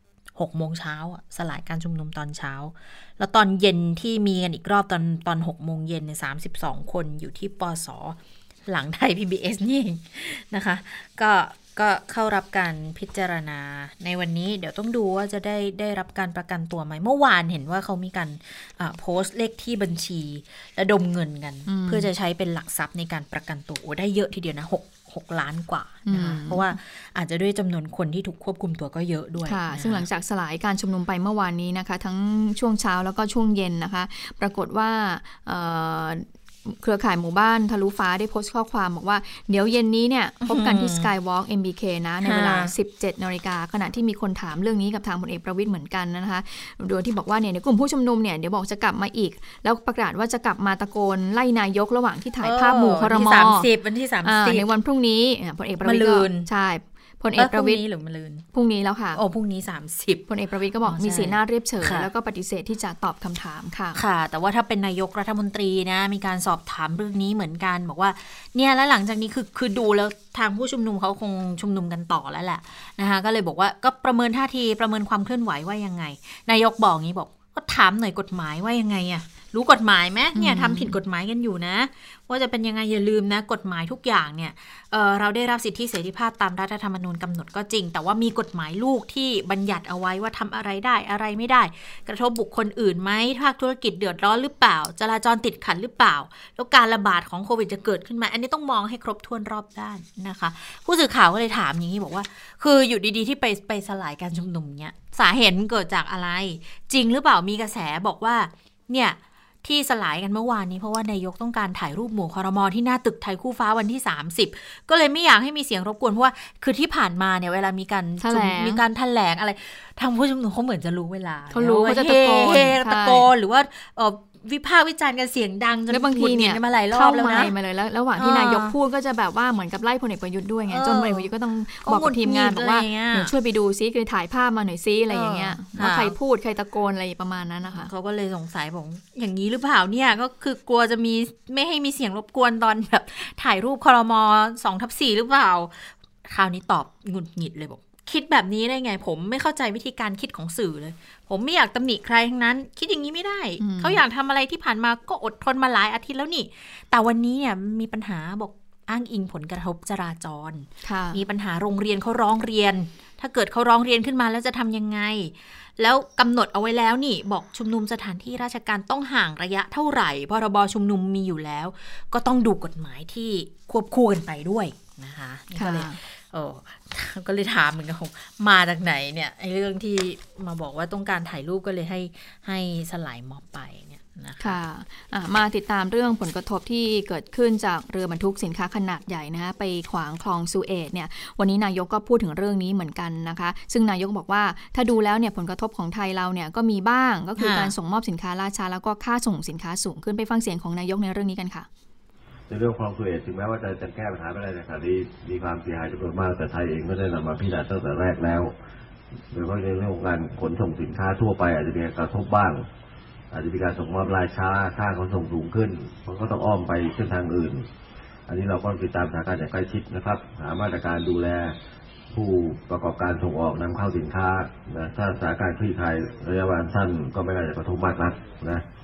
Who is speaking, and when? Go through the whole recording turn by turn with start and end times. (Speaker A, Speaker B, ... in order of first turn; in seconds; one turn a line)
Speaker A: 0.3-30.1
Speaker B: 21.7-22.1
Speaker B: 26.1-26.8
Speaker B: 29.4-53.7
Speaker A: 40.4-41.1
Speaker A: 42.2-42.7
Speaker A: 52.4-54.6
Speaker B: 54.2-57.8
Speaker A: 55.9-56.5
Speaker A: 57.4-58.5
Speaker B: 58.5-59.2
Speaker A: 59.1-60.3
Speaker B: 60.3-64.0
Speaker A: 60.8-62.1
Speaker A: 64.0-127.5
Speaker B: 80.3-81.0
Speaker B: 118.2-118.8
Speaker B: 121.5-123.3
Speaker B: 125.9-137.9
Speaker A: 128.2-128.8
Speaker A: 130.7-131.3
Speaker A: 131.8-133.3
Speaker A: 135.1-136.1
Speaker A: 137.6-184.6
Speaker B: 153.6-154.0
Speaker B: 160.8-161.2
Speaker B: 175.6-176.0
Speaker B: 184.4-201.7
Speaker A: 197.4-197.7
Speaker C: 202.5-208.5
Speaker C: 209.3-212.7
Speaker C: 213.3-217.7
Speaker C: 218.3-221.6
Speaker C: 222.1-228.7